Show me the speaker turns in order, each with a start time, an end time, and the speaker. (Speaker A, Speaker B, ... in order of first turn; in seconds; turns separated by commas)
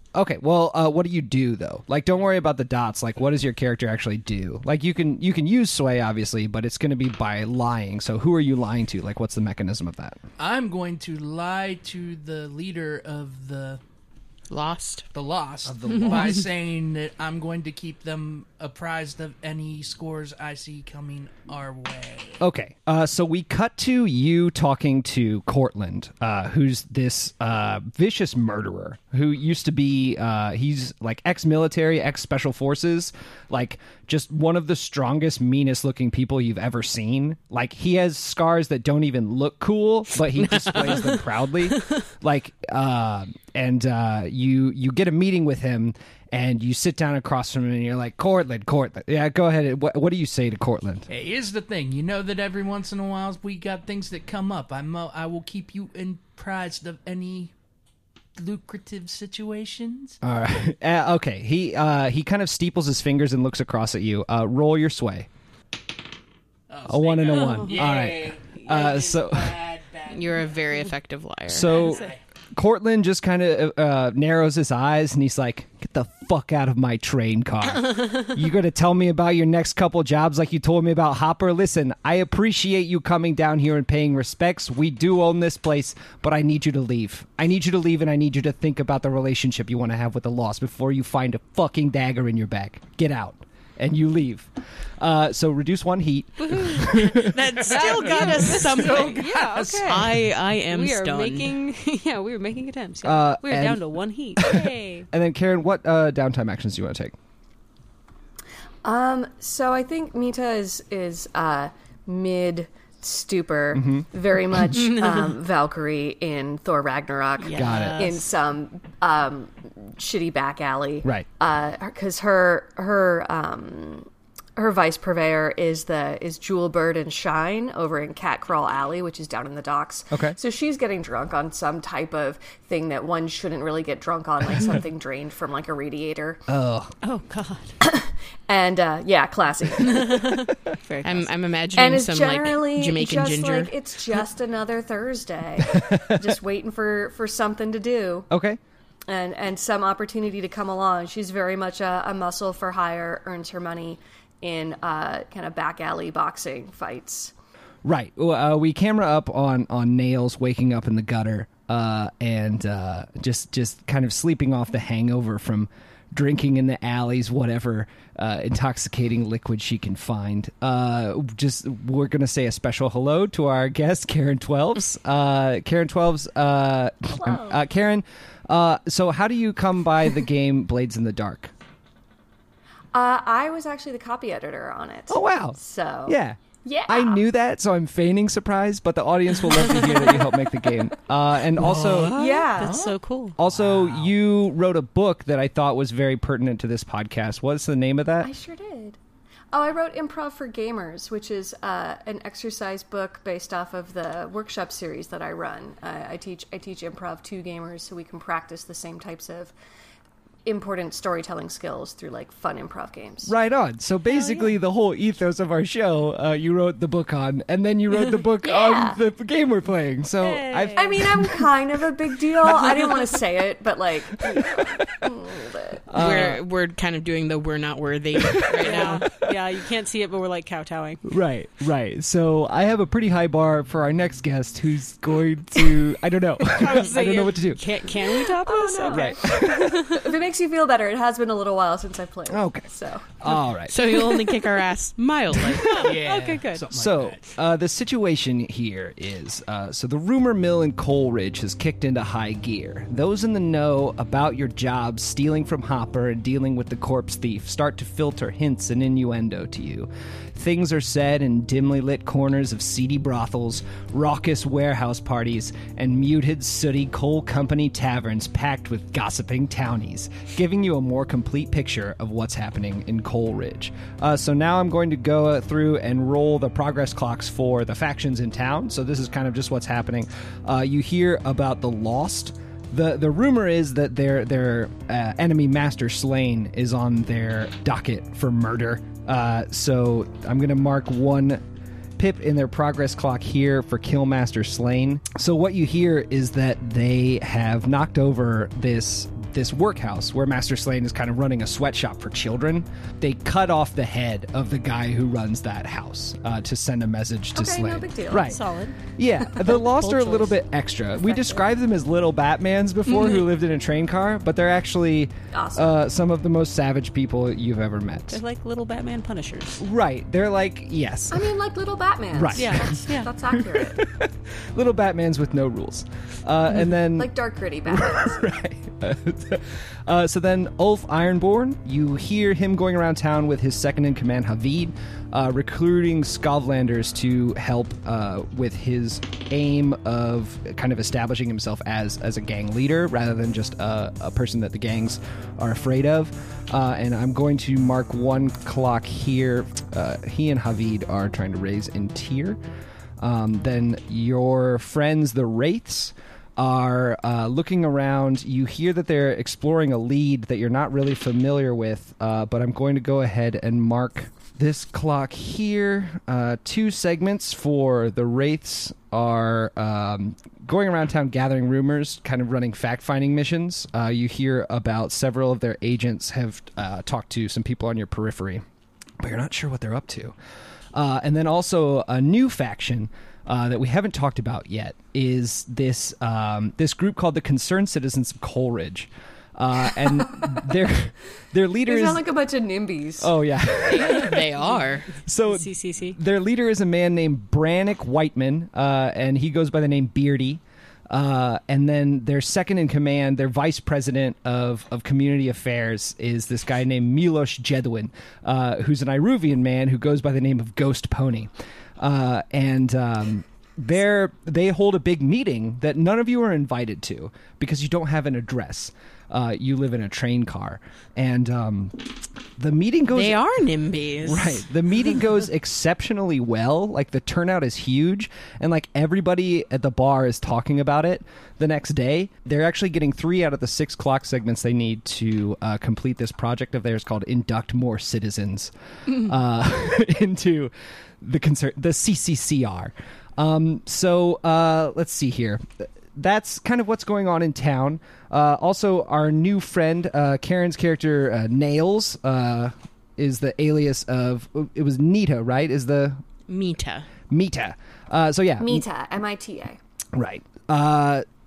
Speaker A: 0.1-10.2, Speaker B: 10.4-13.8, Speaker C: 14.5-15.1, Speaker B: 15.1-22.4, Speaker A: 15.7-16.5, Speaker A: 22.4-51.1, Speaker C: 40.5-41.1, Speaker B: 51.1-57.5, Speaker B: 58.4-60.2, Speaker A: 60.2-65.3, Speaker B: 66.7-70.9, Speaker A: 66.9-69.6, Speaker D: 67.3-67.9, Speaker C: 70.1-71.8, Speaker A: 71.5-97.4, Speaker B: 71.7-72.2, Speaker D: 96.4-105.1, Speaker C: 97.0-101.5, Speaker B: 97.6-100.2, Speaker A: 103.0-103.8, Speaker A: 104.4-107.1, Speaker E: 108.8-136.4, Speaker A: 113.7-114.1, Speaker D: 117.4-118.2, Speaker A: 117.5-118.2, Speaker A: 130.1-130.4, Speaker A: 136.5-136.9, Speaker D: 137.0-137.8, Speaker E: 137.8-140.4, Speaker D: 139.9-141.3, Speaker C: 141.0-143.7, Speaker E: 141.7-148.3, Speaker A: 145.8-146.2, Speaker A: 148.3-148.6, Speaker E: 149.1-157.3, Speaker A: 157.8-181.5, Speaker E: 177.1-177.6, Speaker E: 182.9-187.2, Speaker A: 185.1-192.2, Speaker B: 191.6-194.1, Speaker E: 191.9-192.9, Speaker D: 192.5-193.4, Speaker A: 193.4-198.3, Speaker E: 198.2-199.0, Speaker E: 199.5-209.5, Speaker E: 210.4-213.3, Speaker A: 213.3-221.5, Speaker D: 214.1-214.5, Speaker E: 218.4-219.0, Speaker D: 220.2-220.9, Speaker E: 220.8-225.8, Speaker A: 224.3-225.0, Speaker A: 225.9-226.4, Speaker C: 225.9-229.1, Speaker A: 228.3-229.3, Speaker D: 228.6-231.0, Speaker A: 231.0-237.6, Speaker D: 236.4-240.1, Speaker E: 238.3-243.1, Speaker A: 238.9-240.0, Speaker A: 242.3-244.2, Speaker C: 243.7-245.9, Speaker D: 245.5-246.7, Speaker B: 245.8-247.3, Speaker A: 246.7-291.4, Speaker A: 292.0-308.4, Speaker E: 307.3-308.4, Speaker D: 308.1-308.8, Speaker A: 308.9-318.2, Speaker D: 309.4-310.4, Speaker E: 315.3-315.8, Speaker D: 318.1-319.6, Speaker A: 319.6-321.3, Speaker E: 321.1-323.8, Speaker A: 322.1-327.1, Speaker D: 322.4-323.1, Speaker E: 326.9-328.2, Speaker A: 327.7-352.4, Speaker A: 353.0-378.4, Speaker A: 379.0-380.1, Speaker A: 380.7-392.1, Speaker E: 391.6-393.1, Speaker A: 393.0-394.3, Speaker C: 393.7-394.9, Speaker A: 395.1-421.8, Speaker D: 395.1-396.0, Speaker A: 422.4-423.2, Speaker C: 422.9-424.4, Speaker A: 424.0-456.0, Speaker C: 456.3-456.9, Speaker A: 457.1-458.6, Speaker E: 458.4-459.6, Speaker A: 459.9-461.1